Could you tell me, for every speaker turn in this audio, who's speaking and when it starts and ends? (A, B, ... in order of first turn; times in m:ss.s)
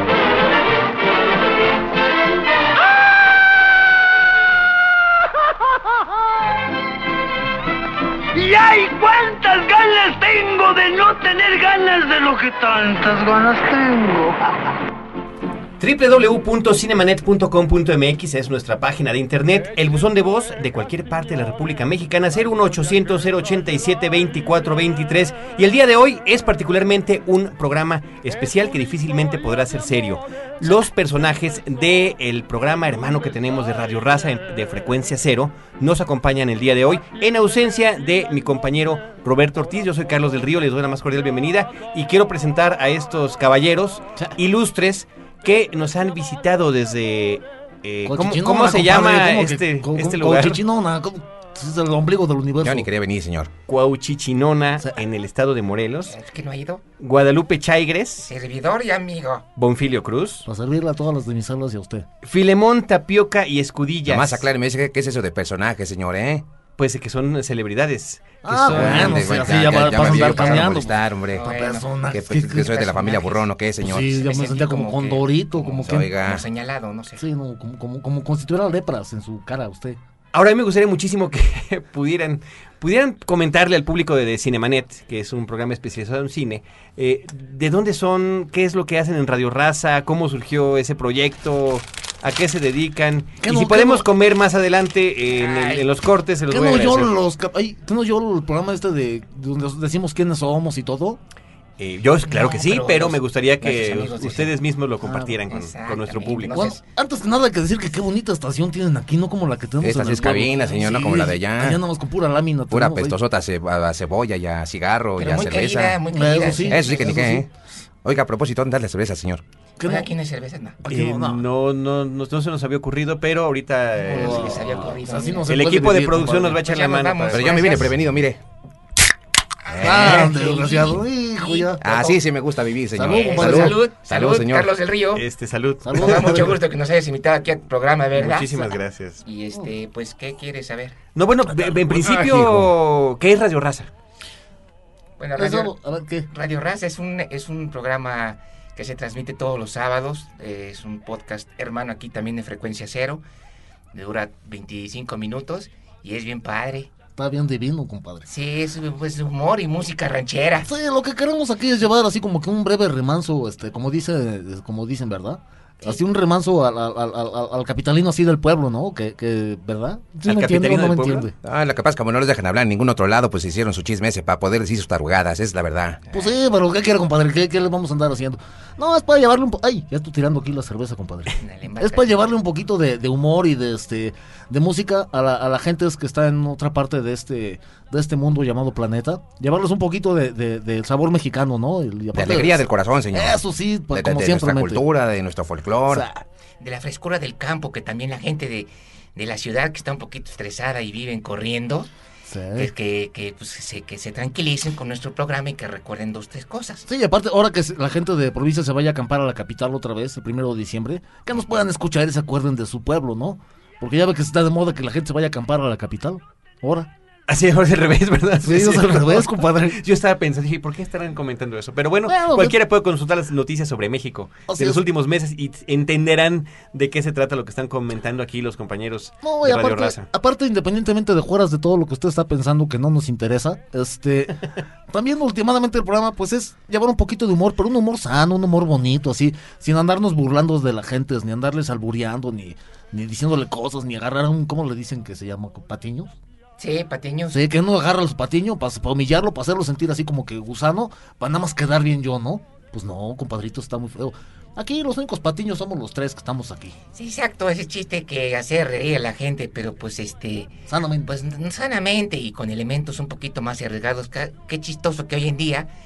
0:08.3-0:14.4 A
0:15.8-0:50.6 B
0:48.0-0:52.9 C
0:52.6-0:53.5 D
0:53.7-0:56.1 B
0:56.0-0:56.8 E
0:57.0-0:58.3 B
0:58.2-0:59.4 E
0:59.6-1:00.4 B
1:00.4-1:02.0 C
1:02.2-1:04.5 B
1:04.1-1:06.4 D
1:06.8-1:10.6 B
1:08.4-1:16.1 C
1:08.5-1:11.5 D
1:11.3-1:11.9 E
1:12.1-1:14.2 D
1:14.0-1:17.2 E
1:15.6-1:16.4 D
1:17.2-1:20.0 C
1:20.3-1:37.1 B
1:33.4-1:34.1 C
1:35.3-1:35.8 E
1:36.5-1:41.2 C
1:41.8-1:46.6 B
1:42.2-1:44.5 E
1:45.0-1:45.4 C
1:45.5-1:46.8 E
1:46.5-1:53.2 C
1:49.8-1:51.8 D
1:50.5-1:51.2 E
1:52.7-1:56.0 D
1:55.2-1:57.3 E
1:56.1-1:57.4 C
1:56.6-1:57.5 D
1:58.0-1:59.4 D
1:59.8-2:00.1 C
1:59.8-2:00.8 E
2:00.8-2:01.4 C
2:00.9-2:04.5 B
2:04.0-2:05.5 E
2:04.1-2:06.6 C
2:05.5-2:07.6 B
2:06.5-2:07.9 E
2:07.3-2:08.4 D
2:09.7-2:12.2 E
2:09.8-2:10.3 D
2:09.8-2:11.8 C
2:11.8-2:14.7 D
2:12.9-2:13.8 C
2:13.0-2:15.2 E
2:15.1-2:16.5 B
2:15.8-2:16.6 C
2:15.9-2:21.0 E
2:18.2-2:19.2 B
2:21.1-2:23.9 B
2:22.2-2:22.7 D
2:25.2-2:25.7 E
2:25.4-2:26.3 C
2:26.3-2:33.2 E
2:33.9-2:36.9 E
2:37.2-2:38.3 C
2:38.2-2:40.7 E
2:40.6-2:51.3 C
2:50.2-2:51.3 B
2:51.4-2:56.0 D
2:56.1-3:14.8 C
3:01.4-3:02.2 E
3:12.1-3:13.4 D
3:13.9-3:16.0 D
3:15.9-3:16.2 C
3:16.6-3:21.9 E
3:22.3-3:22.7 C
3:22.6-3:26.8 E
3:26.9-3:36.9 C
3:37.3-3:50.0 B
3:38.4-3:39.8 C
3:42.0-3:42.6 C
3:44.5-3:44.8 C
3:49.2-4:06.1 C
4:06.6-4:07.4 E
4:07.3-4:16.8 C
4:16.9-4:20.5 E
4:20.7-4:21.1 C
4:21.0-4:25.7 E